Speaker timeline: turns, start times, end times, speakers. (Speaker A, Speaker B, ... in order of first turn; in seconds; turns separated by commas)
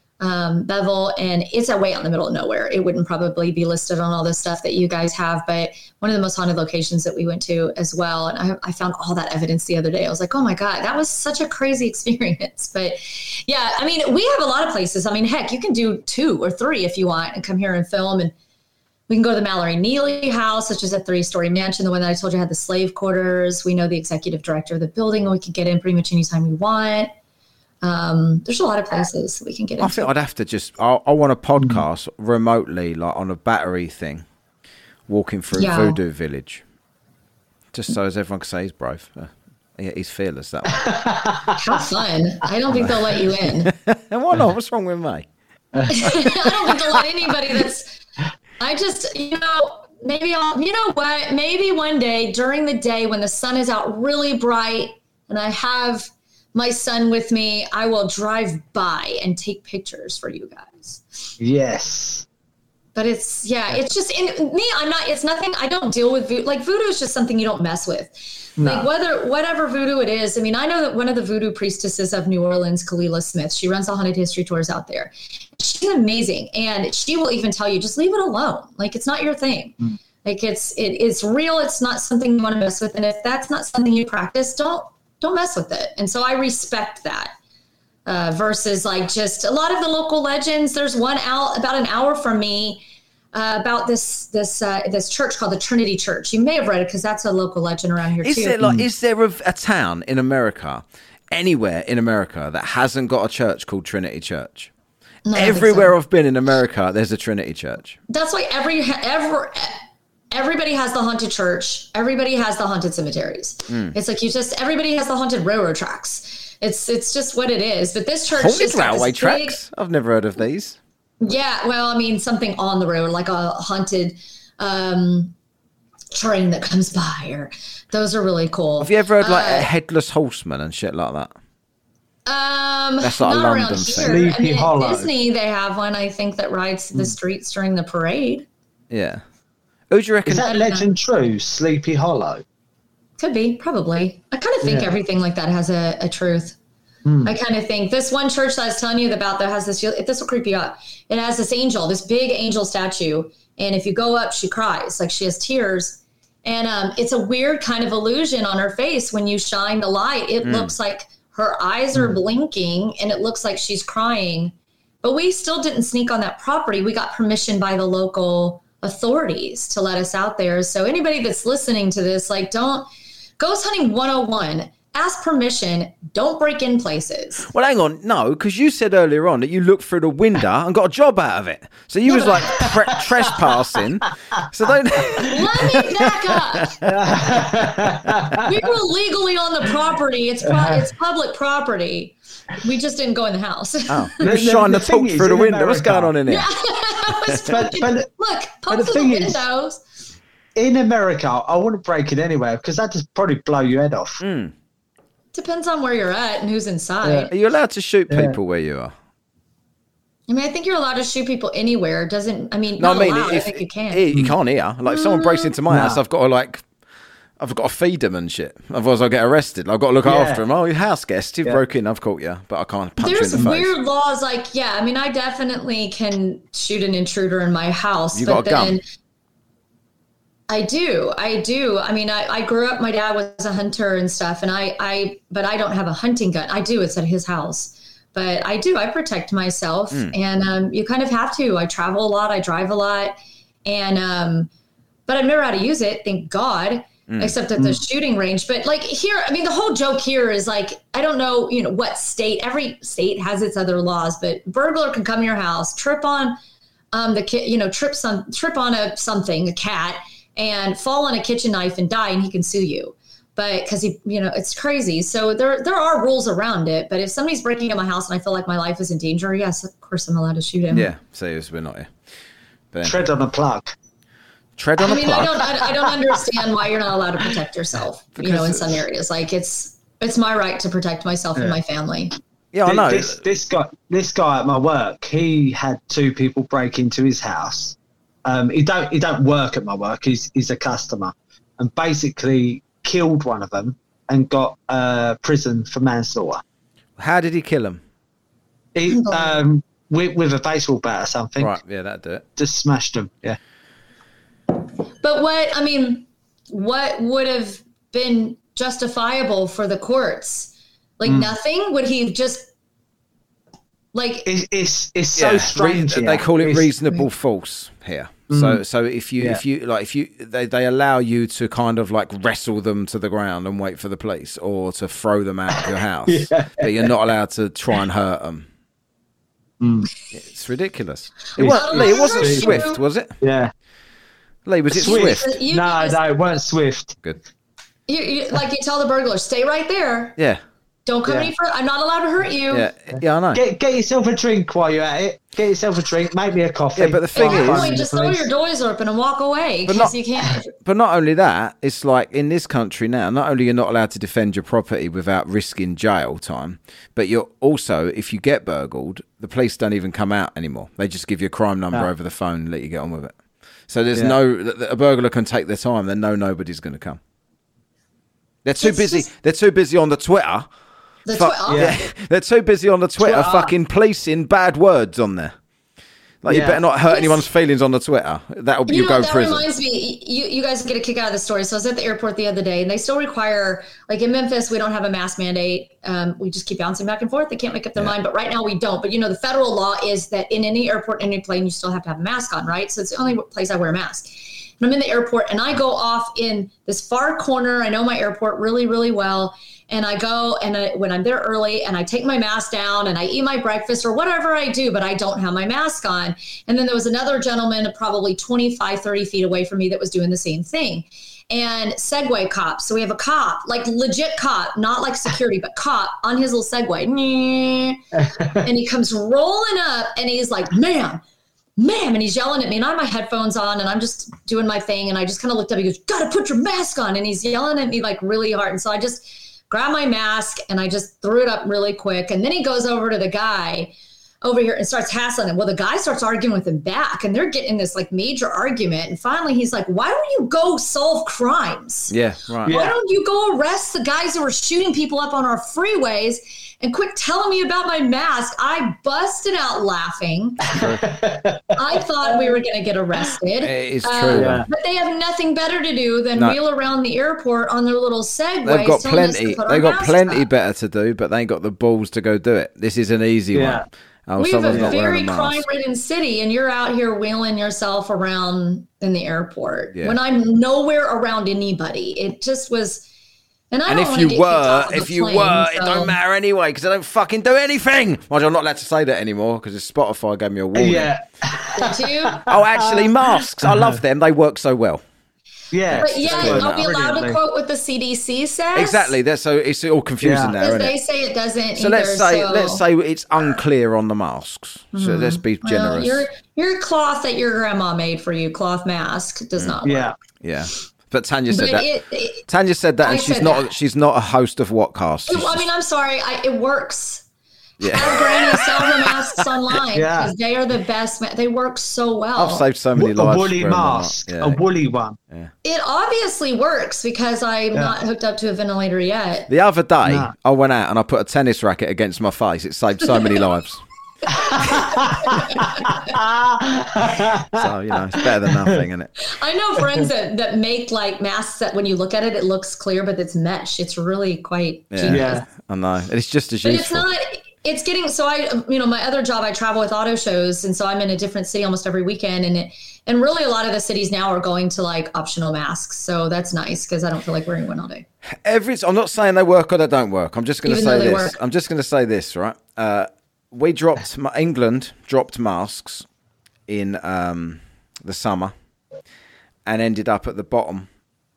Speaker A: 0.2-18.3, Speaker A: 19.1-27.1, Speaker A: 27.8-30.1, Speaker B: 29.8-34.2, Speaker B: 35.1-36.6, Speaker A: 35.5-36.0, Speaker B: 37.7-40.9, Speaker C: 40.7-41.8, Speaker A: 41.6-43.7, Speaker B: 43.6-45.3, Speaker C: 45.7-46.0, Speaker A: 45.9-47.9, Speaker A: 48.6-61.3, Speaker C: 61.4-62.2, Speaker A: 63.0-87.3, Speaker C: 68.6-68.9, Speaker A: 88.1-92.8, Speaker A: 93.3-98.6, Speaker B: 98.2-104.7, Speaker C: 98.6-98.9, Speaker A: 105.3-106.0, Speaker B: 105.3-108.0, Speaker A: 108.1-109.8, Speaker A: 110.3-119.6, Speaker B: 113.7-114.0, Speaker B: 118.4-120.8, Speaker A: 121.2-125.3, Speaker A: 126.1-129.7, Speaker B: 128.8-131.3, Speaker A: 132.3-138.5, Speaker B: 133.0-134.2, Speaker C: 134.0-135.1, Speaker B: 138.9-139.2, Speaker B: 139.9-140.5, Speaker C: 140.3-142.4, Speaker A: 140.4-140.9, Speaker A: 143.2-146.6, Speaker C: 144.6-144.9, Speaker C: 147.1-147.3, Speaker A: 147.2-172.9, Speaker B: 160.4-160.7, Speaker A: 173.4-177.5, Speaker B: 177.5-186.9, Speaker A: 182.1-182.4, Speaker C: 182.1-183.6, Speaker A: 185.2-186.8, Speaker C: 186.9-188.4, Speaker A: 188.4-194.2, Speaker C: 190.5-190.9, Speaker B: 193.9-196.5, Speaker C: 194.2-196.1, Speaker A: 196.3-199.8, Speaker B: 197.3-197.5, Speaker C: 197.5-198.1, Speaker C: 198.7-199.4, Speaker C: 200.6-204.2, Speaker B: 204.2-204.5, Speaker A: 205.3-207.3, Speaker B: 207.1-208.9, Speaker C: 208.1-208.4, Speaker A: 210.3-214.0, Speaker B: 212.8-216.6, Speaker A: 214.9-215.6, Speaker C: 215.7-216.0, Speaker B: 217.4-223.7, Speaker C: 220.0-220.4, Speaker A: 223.0-228.8, Speaker B: 228.1-228.8, Speaker A: 230.5-244.5, Speaker A: 245.1-256.4, Speaker B: 247.1-247.3, Speaker C: 247.6-247.8, Speaker A: 256.9-270.9, Speaker B: 270.7-271.9, Speaker B: 272.7-273.0, Speaker C: 272.8-273.7, Speaker B: 274.6-275.5, Speaker A: 274.8-282.1, Speaker B: 278.2-278.8, Speaker B: 282.5-283.2, Speaker C: 282.7-296.4, Speaker B: 297.0-297.8, Speaker C: 298.8-301.5, Speaker A: 298.9-299.4, Speaker B: 301.4-302.2, Speaker C: 302.4-303.4, Speaker A: 305.0-312.5, Speaker C: 311.1-311.3, Speaker A: 313.9-314.3, Speaker C: 314.3-317.1, Speaker B: 315.2-328.5, Speaker C: 318.3-318.6, Speaker C: 325.6-326.9, Speaker C: 329.6-329.9, Speaker B: 330.1-333.2, Speaker A: 331.4-332.8, Speaker C: 331.4-332.6, Speaker C: 333.2-333.5, Speaker B: 334.5-335.3, Speaker C: 334.7-337.0, Speaker A: 334.7-336.0, Speaker A: 337.9-340.2, Speaker A: 340.9-342.7, Speaker C: 341.1-341.3, Speaker B: 342.5-343.4, Speaker C: 343.3-348.3, Speaker B: 346.8-347.8, Speaker A: 347.2-350.5, Speaker B: 349.7-349.9, Speaker B: 350.5-363.1, Speaker B: 363.7-367.0, Speaker B: 368.4-370.5, Speaker A: 368.6-369.1, Speaker A: 371.1-371.8, Speaker B: 371.1-375.4, Speaker C: 371.5-371.8, Speaker C: 373.0-373.5, Speaker B: 376.2-379.4, Speaker C: 376.3-376.6, Speaker A: 376.9-377.2, Speaker A: 378.7-417.8, Speaker C: 418.1-418.4, Speaker A: 418.4-421.0, Speaker A: 421.6-441.9, Speaker B: 441.9-442.5, Speaker C: 442.4-442.8, Speaker A: 442.5-450.5, Speaker C: 450.5-451.4, Speaker B: 450.5-450.9, Speaker A: 451.6-460.3, Speaker B: 453.4-454.4, Speaker C: 454.1-454.5, Speaker B: 458.4-465.4, Speaker C: 463.3-463.6, Speaker A: 464.2-472.9, Speaker B: 469.7-470.0, Speaker A: 473.5-475.9, Speaker B: 473.7-480.9, Speaker C: 480.6-483.8, Speaker A: 481.6-482.2, Speaker B: 482.3-484.8, Speaker C: 485.5-487.2, Speaker B: 485.7-486.6, Speaker A: 485.8-488.9, Speaker B: 488.6-490.8, Speaker C: 490.0-490.4, Speaker A: 490.4-492.6, Speaker B: 491.6-496.1, Speaker A: 494.7-499.9, Speaker C: 499.6-499.9, Speaker B: 500.2-501.7, Speaker A: 501.3-502.3, Speaker B: 502.3-505.5, Speaker A: 502.8-503.5, Speaker A: 505.1-507.0, Speaker B: 507.6-509.2, Speaker A: 507.6-512.5, Speaker C: 509.7-510.1, Speaker B: 512.2-514.4, Speaker C: 512.8-515.0, Speaker A: 515.4-519.3, Speaker B: 519.3-523.6, Speaker C: 519.8-520.1, Speaker C: 524.1-528.6, Speaker A: 524.1-526.0, Speaker B: 527.3-528.9, Speaker A: 529.0-535.2, Speaker B: 534.7-536.9, Speaker C: 534.9-535.2, Speaker A: 536.4-547.9, Speaker B: 548.1-555.9, Speaker A: 550.5-551.2, Speaker B: 556.5-558.3, Speaker B: 559.5-560.7